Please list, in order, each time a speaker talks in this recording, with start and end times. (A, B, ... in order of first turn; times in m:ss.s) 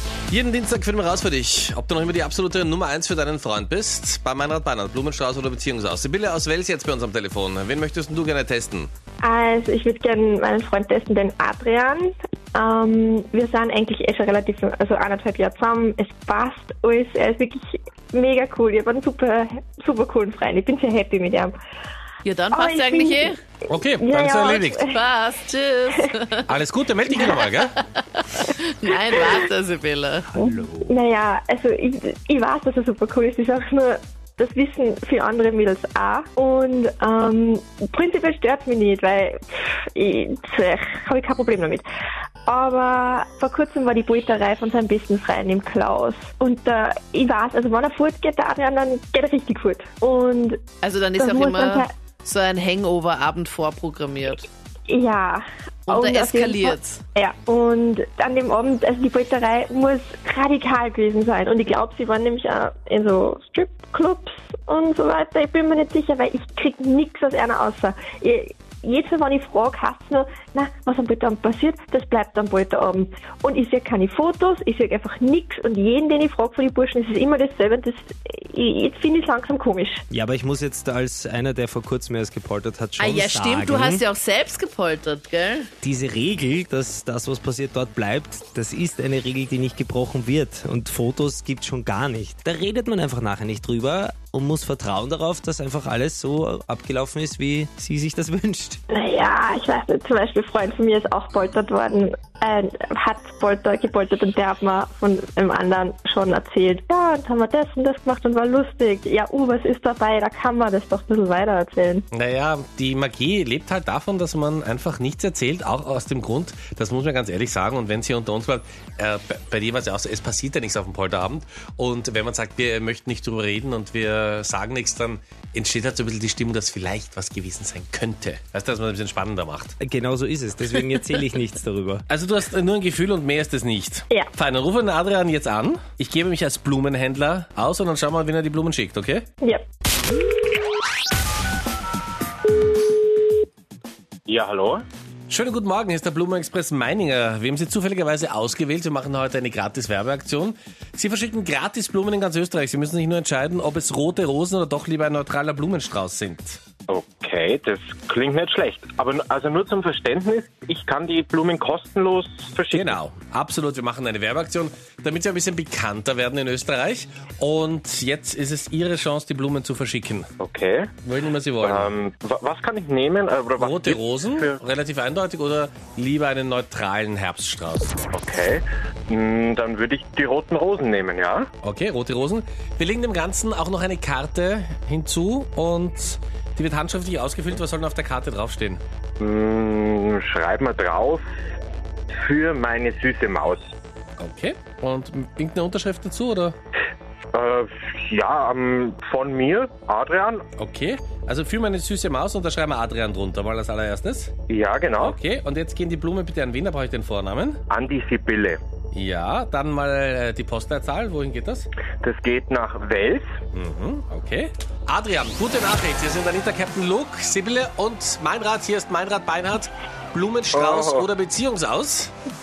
0:00.3-0:08.9 A
0:09.2-0:21.5 B
0:22.2-0:23.4 C
0:22.5-0:23.3 B
0:23.7-0:24.8 A
0:24.0-0:25.0 B
0:24.8-0:26.4 C
0:26.5-0:27.7 A
0:27.3-0:30.3 C
0:30.4-0:41.8 B
0:30.4-0:30.9 D
0:42.4-0:50.6 B
0:50.8-0:54.5 C
0:51.2-0:51.9 B
0:54.9-1:20.0 B
0:55.9-0:57.0 C
1:20.1-1:24.0 D
1:23.0-1:25.7 C
1:25.8-1:38.8 D
1:38.9-1:52.0 B
1:52.1-2:09.7 A
2:09.8-2:12.0 D
2:12.1-2:19.2 A
2:24.3-2:24.8 E
2:25.3-2:36.6 A
2:36.9-2:43.0 E
2:42.7-2:50.3 A
2:50.4-2:50.9 E
2:51.0-2:51.9 A
2:51.6-2:54.6 E
2:53.6-2:58.0 A
2:58.1-3:01.5 E
3:01.6-3:08.8 A
3:09.2-3:11.2 E
3:12.2-3:13.7 E
3:14.2-3:16.6 A
3:17.3-3:20.4 E
3:20.6-3:24.3 A
3:24.5-3:25.2 E
3:25.0-3:27.6 A
3:27.7-3:28.6 E
3:28.9-3:31.6 A
3:32.0-3:33.3 E
3:33.5-3:42.1 A
3:40.5-3:41.1 E